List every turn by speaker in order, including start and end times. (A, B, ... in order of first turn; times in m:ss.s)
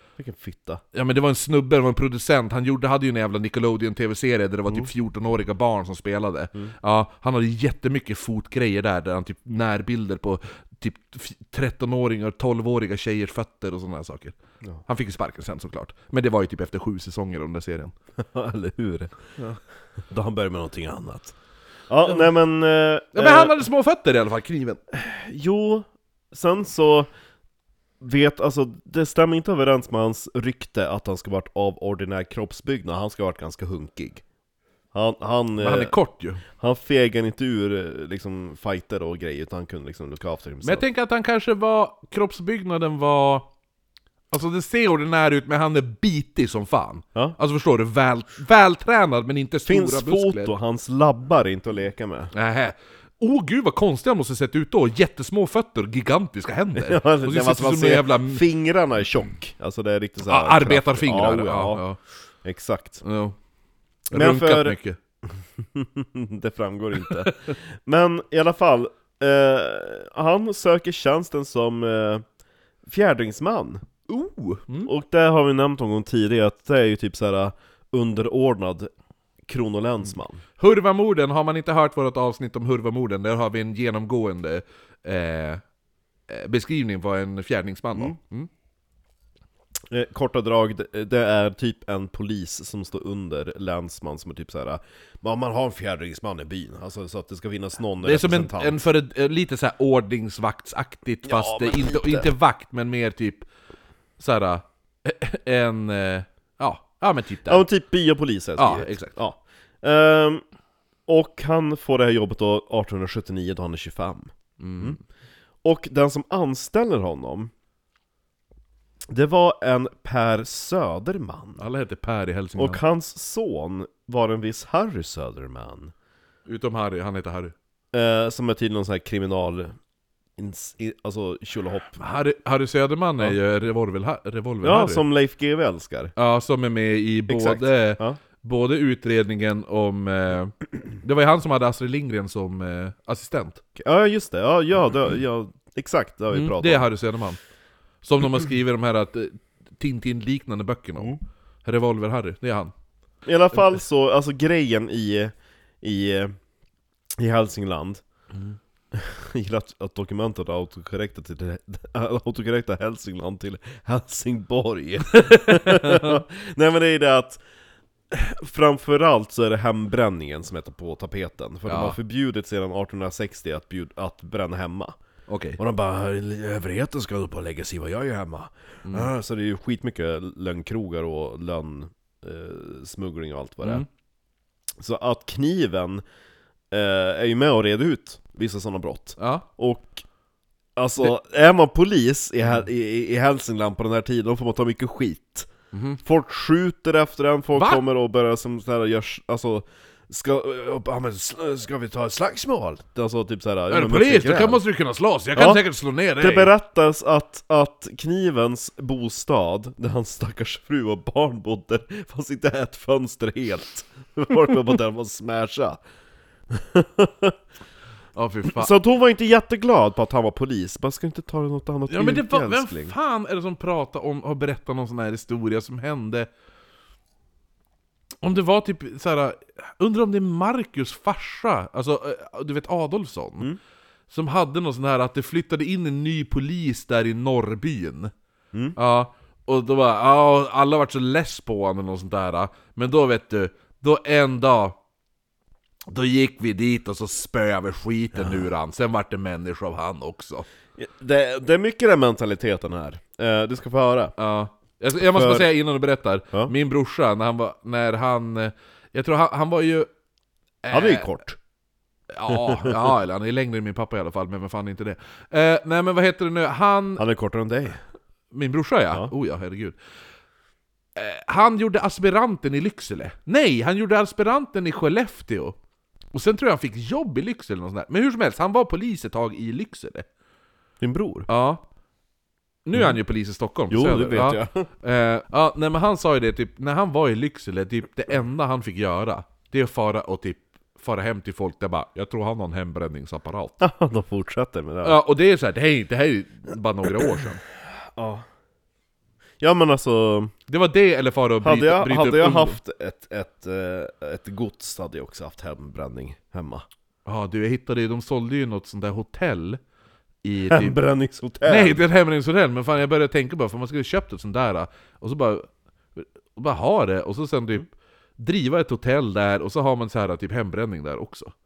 0:00.2-0:00.8 A
0:00.9-0:17.9 B
0:18.2-0:19.1 A
0:20.1-0:21.3 A
0:21.9-0:23.6 A
0:23.1-0:24.8 B
0:24.9-0:27.1 A
0:28.0-0:34.2 A
0:34.9-0:35.9 A
0:35.6-0:36.4 B
0:36.5-0:40.8 A
0:40.6-0:43.5 B
0:44.3-0:50.5 B
0:49.6-0:52.3 A
0:52.3-0:58.4 B
0:56.7-1:01.8 A
1:00.2-1:02.0 B
1:02.4-1:03.0 A
1:03.0-1:03.3 B
1:04.1-1:05.0 B
1:04.1-1:12.2 A
1:07.0-1:07.3 B
1:12.8-1:13.9 A
1:14.1-1:14.9 B
1:14.8-1:18.9 A
1:19.4-1:20.4 A
1:20.6-1:25.6 B
1:26.3-1:28.5 B
1:29.9-1:38.8 A
1:38.0-1:43.4 B
1:41.2-1:42.3 A
1:44.2-1:47.6 B
1:47.4-1:50.4 A
1:48.6-1:49.1 B
1:51.1-1:55.0 A
1:54.6-1:55.0 B
1:55.6-1:57.5 A
1:59.1-2:01.6 A
2:01.6-2:02.8 B
2:02.6-2:05.9 A
2:06.5-2:07.5 B
2:07.9-2:09.7 A
2:10.4-2:12.0 A
2:12.0-2:15.0 B
2:14.6-2:16.1 A
2:16.2-2:23.6 B
2:17.3-2:18.2 A
2:23.8-2:26.9 A
2:26.3-2:27.4 B
2:28.0-2:32.7 B
2:33.2-2:36.3 A
2:37.2-2:38.0 A
2:38.9-2:47.4 A
2:45.2-2:46.2 B
2:48.1-2:55.0 A
2:51.7-2:52.0 B
2:55.3-2:55.6 B
2:55.6-3:03.8 A
2:58.8-2:59.1 B
3:04.8-3:06.0 A
3:06.7-3:10.0 A
3:09.2-3:09.4 B
3:10.8-3:15.5 A
3:15.7-3:16.0 B
3:16.0-3:24.6 A
3:17.6-3:17.8 B
3:23.7-3:26.5 B
3:25.3-3:25.6 A
3:26.2-3:35.8 A
3:36.5-3:37.4 A
3:38.1-3:38.7 B
3:38.4-3:42.9 A
3:41.9-3:46.3 B
3:48.2-3:53.5 B
3:54.1-3:58.1 B
3:58.8-4:04.8 B
4:05.9-4:10.4 B
4:10.8-4:14.1 A
4:14.2-4:19.9 B
4:15.1-4:15.5 A
4:20.6-4:21.1 B
4:20.7-4:21.4 A
4:22.1-4:27.0 B
4:22.3-4:22.9 A
4:27.0-4:27.8 A
4:28.3-4:29.8 B
4:31.0-4:35.6 B
4:36.1-4:40.0 B
4:40.8-4:41.3 A
4:41.3-4:41.6 B
4:42.6-4:53.6 B
4:42.7-4:43.0 A
4:43.7-4:44.7 A
4:53.6-4:55.0 A
4:54.8-4:57.4 B
4:58.0-4:58.2 A
4:59.4-5:00.3 A
5:00.5-5:02.6 B
5:01.4-5:06.6 A
5:07.0-5:09.6 B
5:10.2-5:10.8 B
5:10.5-5:11.8 A
5:11.4-5:17.6 B
5:18.2-5:21.3 B